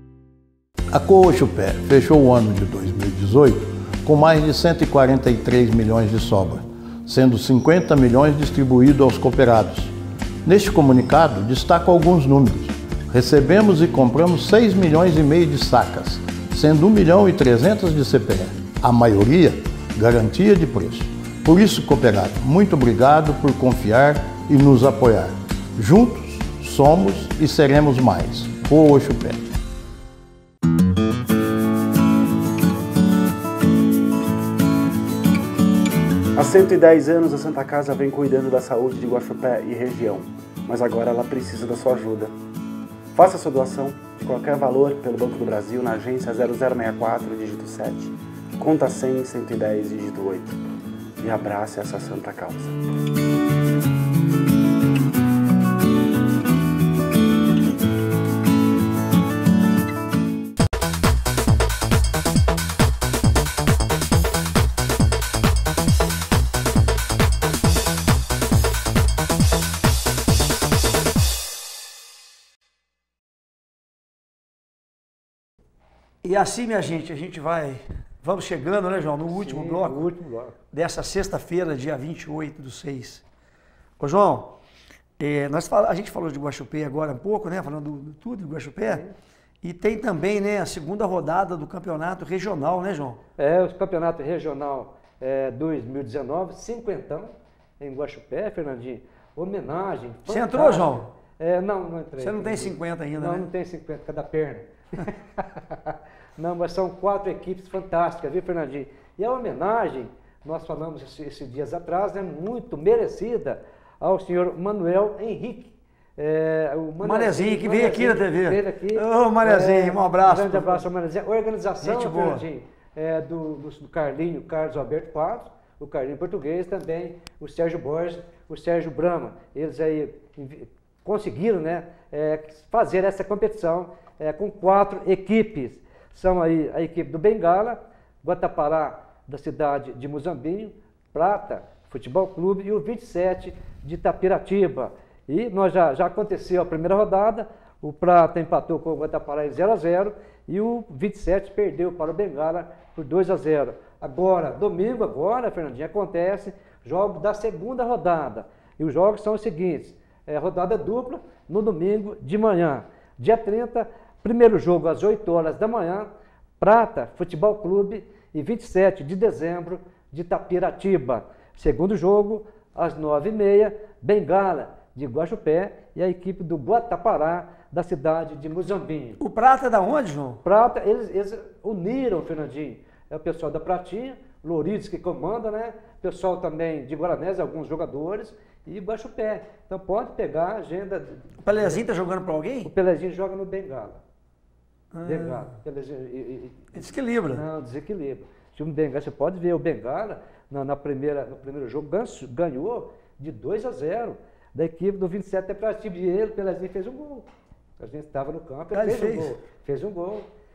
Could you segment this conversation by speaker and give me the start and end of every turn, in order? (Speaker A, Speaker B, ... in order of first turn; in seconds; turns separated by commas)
Speaker A: 0.9-9.9, Speaker A: 10.4-29.5, Speaker B: 36.3-42.3, Speaker B: 43.1-50.6, Speaker B: 51.2-52.8, Speaker C: 76.2-80.1, Speaker D: 79.3-80.5, Speaker C: 80.7-83.2, Speaker C: 84.0-84.6, Speaker C: 85.2-89.0, Speaker D: 88.8-89.1, Speaker C: 89.6-93.2, Speaker D: 93.4-166.1, Speaker C: 100.3-101.1, Speaker C: 102.2-103.5, Speaker C: 117.0-120.8, Speaker C: 121.8-122.4, Speaker D: 166.6-179.2, Speaker C: 179.2-180.4, Speaker D: 180.4-191.8, Speaker C: 191.4-192.7, Speaker D: 192.6-194.0, Speaker C: 194.9-195.5, Speaker D: 195.0-196.7, Speaker C: 196.7-197.4, Speaker D: 197.3-207.3, Speaker D: 207.8-210.2, Speaker C: 208.7-209.3